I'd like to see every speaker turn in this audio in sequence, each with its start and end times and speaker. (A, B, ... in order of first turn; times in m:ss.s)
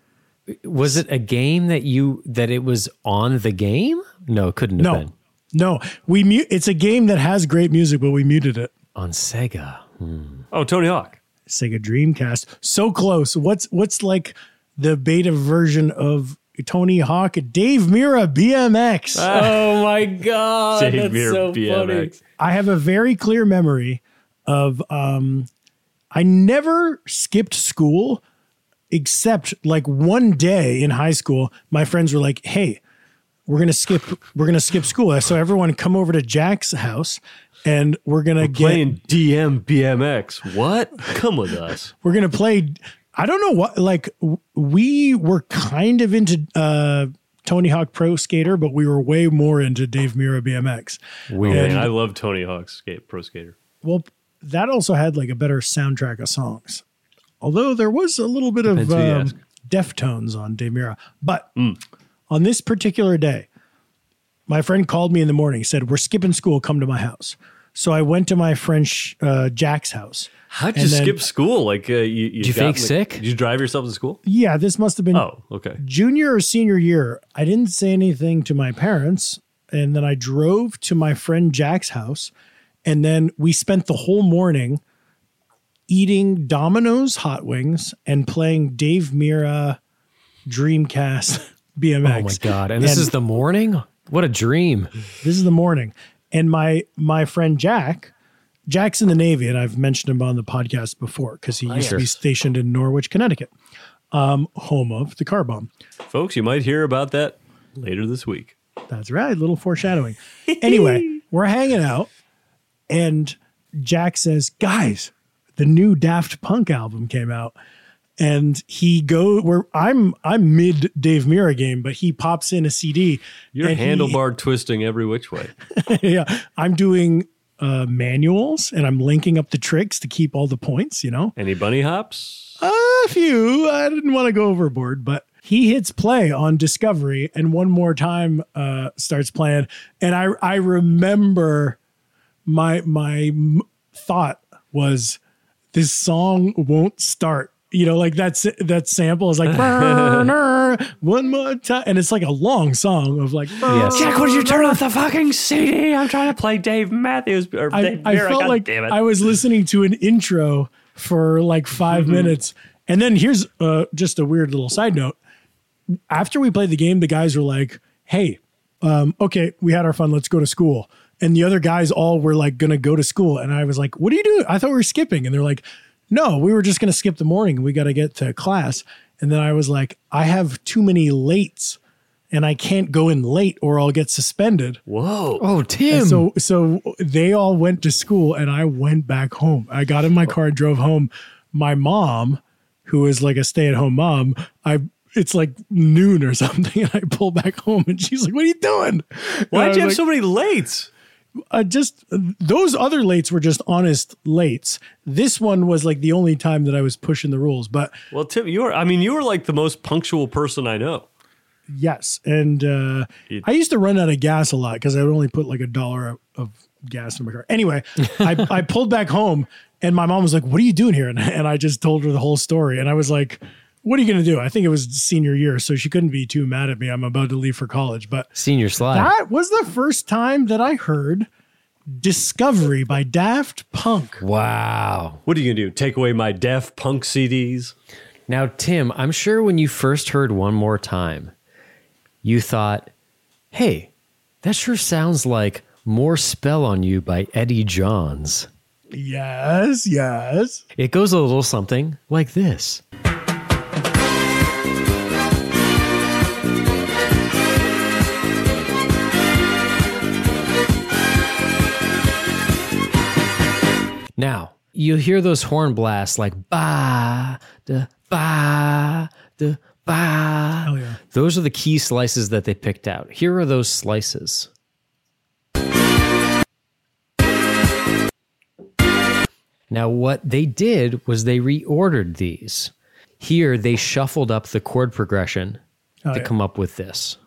0:00.5-0:05.1 A
0:04.8-0:08.7 B
0:09.0-0:10.4 A
0:10.5-0:11.2 C
0:11.5-0:19.3 B
0:19.2-0:19.8 C
0:19.2-0:22.2 A
0:20.7-0:22.2 C
0:22.4-0:25.5 B
0:26.1-0:28.2 B
0:28.9-0:32.8 B
0:33.5-0:38.9 B
0:38.4-0:41.9 C
0:42.0-0:51.9 B
0:51.3-0:51.8 A
0:51.4-0:53.6 C
0:53.8-0:56.8 B
0:57.4-1:01.5 B
0:58.7-0:59.3 C
1:02.3-1:03.5 B
1:04.5-1:11.2 B
1:10.5-1:14.2 C
1:12.4-1:13.2 A
1:14.3-1:15.3 B
1:15.1-1:15.8 C
1:15.8-1:22.3 B
1:22.8-1:24.8 B
1:25.9-1:29.8 B
1:30.5-1:33.1 B
1:32.0-1:34.9 A
1:35.2-1:38.1 B
1:38.7-1:43.5 B
1:41.7-1:42.1 C
1:41.8-1:42.1 A
1:44.1-1:45.7 B
1:46.1-1:48.6 C
1:48.9-1:52.1 B
1:50.5-1:51.1 C
1:52.9-1:57.6 B
1:58.2-2:04.2 B
2:03.6-2:05.5 C
2:05.8-2:11.3 B
2:11.4-2:12.6 C
2:12.6-2:21.8 B
2:22.5-2:25.2 B
2:25.7-2:34.8 B
2:29.6-2:30.3 C
2:33.7-2:39.0 C
2:33.7-2:34.4 A
2:37.7-2:45.2 B
2:41.9-2:42.4 C
2:46.1-3:01.8 B
3:02.3-3:04.8 B
3:04.9-3:05.4 C
3:05.4-3:06.3 A
3:05.9-3:20.0 B
3:19.5-3:20.9 C
3:21.5-3:27.9 B
3:28.1-3:31.1 C
3:31.7-3:48.3 B
3:48.4-3:49.1 A
3:48.9-3:51.3 B
3:52.0-3:54.2 B
3:54.2-3:55.2 A
3:55.3-3:57.7 C
3:58.3-4:01.3 A
4:02.2-4:02.9 A
4:03.5-4:03.9 A
4:04.4-4:08.5 A
4:08.9-4:10.6 B
4:10.8-4:12.8 A
4:24.2-4:34.5 A
4:30.6-4:31.0 B
4:39.7-4:45.6 A
4:46.0-4:46.3 B
4:46.1-4:47.2 A